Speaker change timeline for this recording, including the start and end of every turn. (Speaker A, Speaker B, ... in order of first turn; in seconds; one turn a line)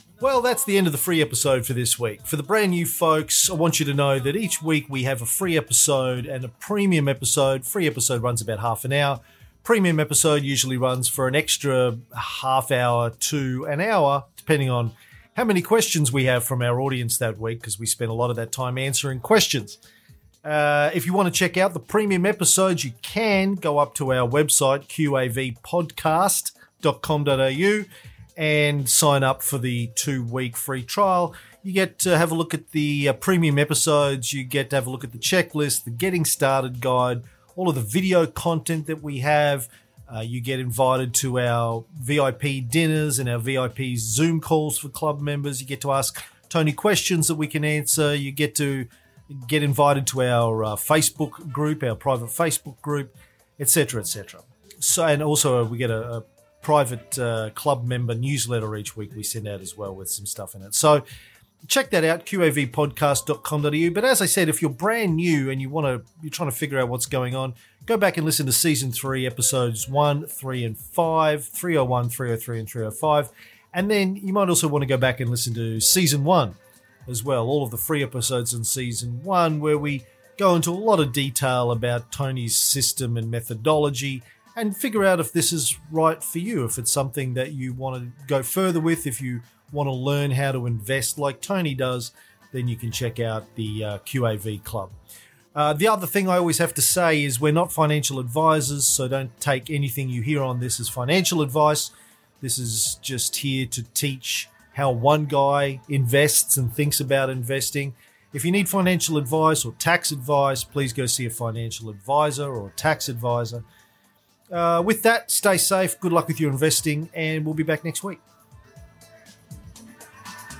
Speaker A: 0.2-19.8
Speaker A: 20.4-61.0
Speaker A: 61.7-95.0
Speaker A: 95.5-113.6
Speaker A: 114.5-118.2